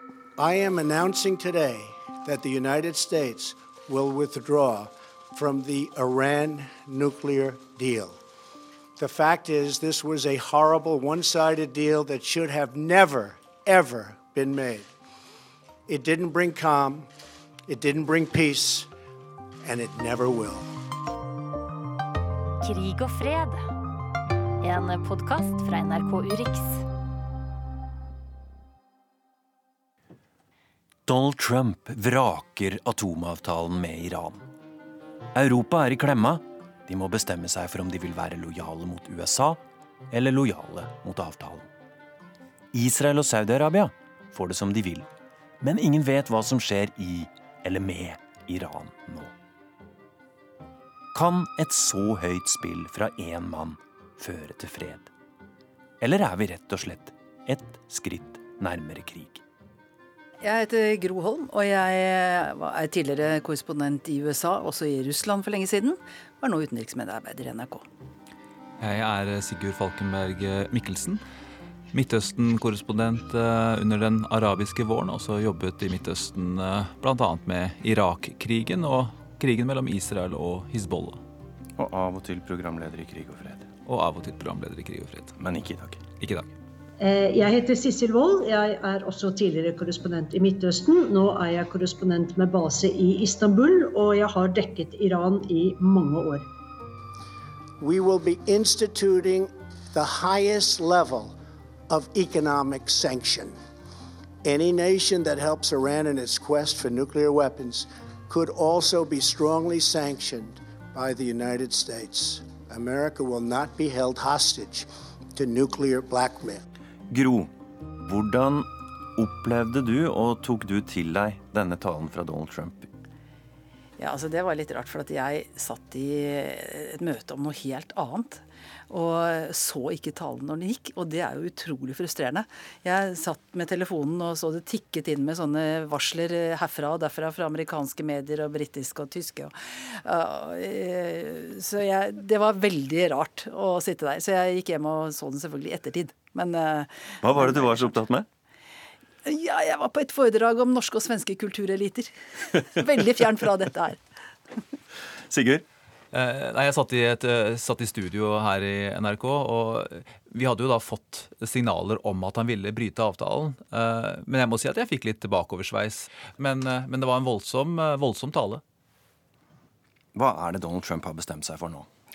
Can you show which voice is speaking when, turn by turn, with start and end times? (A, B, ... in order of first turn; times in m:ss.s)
0:00.4-0:08.2 A
0:09.0-0:14.9 A
0:15.9-0:17.1 A
0:17.7-0:18.9 A
0:19.6-0:20.7 A
0:22.6-0:23.6 B
0:24.6-0:26.8 B
0:31.0-0:34.4 C
0:35.3-0:41.7 C
0:42.7-0:45.1 C
0:45.6-0:49.3 C
0:51.1-0:55.1 C
0:56.0-0:59.4 C
1:00.4-1:07.8 D
1:08.8-1:11.2 E
1:11.9-1:21.2 E
1:21.8-1:23.7 C
1:23.9-1:25.3 E
1:25.4-1:26.0 C
1:26.2-1:26.5 E
1:27.0-1:36.4 F
1:37.8-1:41.3 A
1:41.9-1:43.6 A
1:44.4-1:56.6 A
1:57.1-1:57.5 C
1:58.0-2:02.9 C
2:04.0-2:27.4 D
2:27.2-2:28.2 C
2:29.2-2:34.0 D
2:35.3-2:35.6 C
2:36.1-2:48.6 E
2:50.1-2:51.9 C